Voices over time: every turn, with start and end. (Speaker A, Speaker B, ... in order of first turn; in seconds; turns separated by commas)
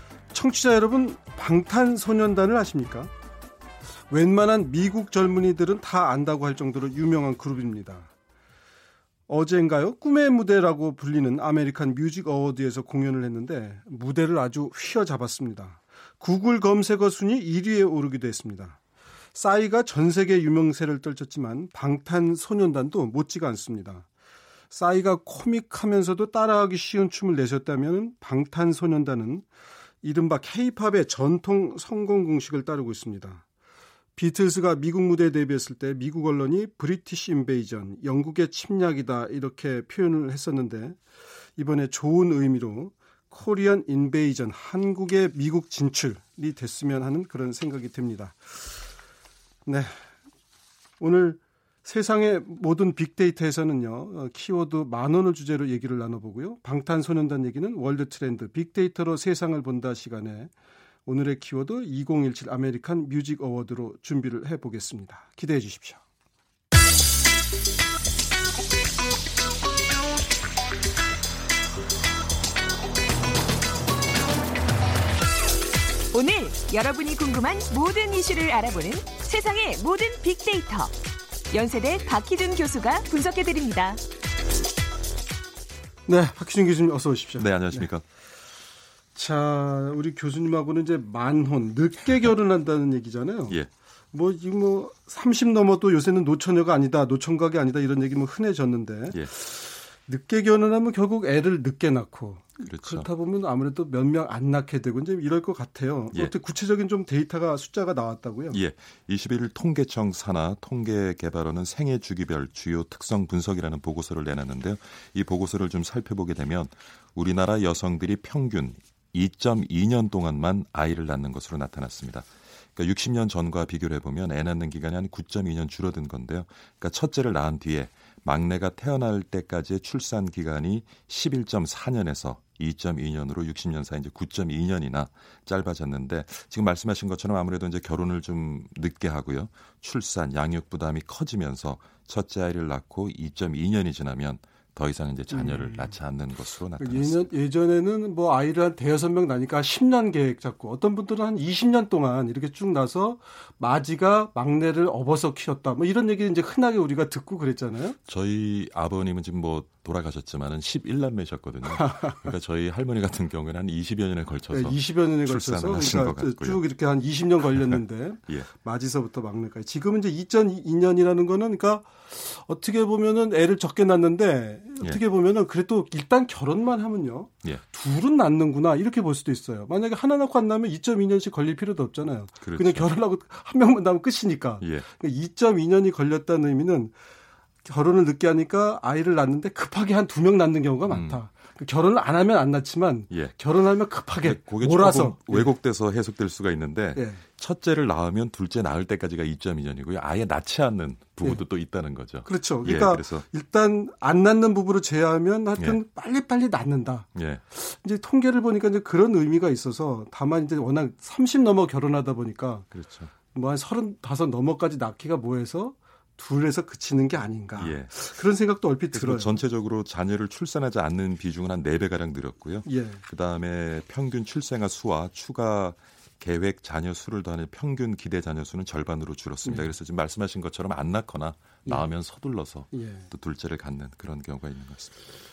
Speaker A: 0.3-3.1, Speaker A: 4.1-8.1, Speaker A: 9.3-18.8, Speaker A: 19.3-24.0, Speaker A: 24.7-29.4, Speaker A: 30.0-33.4, Speaker A: 34.1-41.0, Speaker A: 41.6-48.6, Speaker A: 49.6-49.9, Speaker A: 51.0-60.5, Speaker A: 61.0-66.0, Speaker B: 76.1-80.9, Speaker B: 81.5-84.0, Speaker A: 86.1-87.9, Speaker C: 87.4-88.0, Speaker A: 89.1-93.6, Speaker A: 94.1-108.6, Speaker C: 102.6-103.1, Speaker C: 108.5-147.3, Speaker A: 145.3-146.0, Speaker A: 146.8-158.0, Speaker C: 158.1-166.6, Speaker A: 161.7-162.3, Speaker A: 164.5-186.9, Speaker C: 167.5-168.5, Speaker C: 182.4-182.9, Speaker C: 184.6-184.8, Speaker A: 187.6-195.5, Speaker C: 190.9-191.2, Speaker C: 193.1-193.3, Speaker C: 194.2-203.2, Speaker A: 196.9-197.2, Speaker A: 202.2-212.7, Speaker C: 207.1-207.4, Speaker C: 212.7-213.1, Speaker A: 213.3-219.4, Speaker C: 217.6-217.9, Speaker C: 218.9-235.0, Speaker A: 222.7-223.0, Speaker A: 229.4-229.7, Speaker A: 232.7-233.1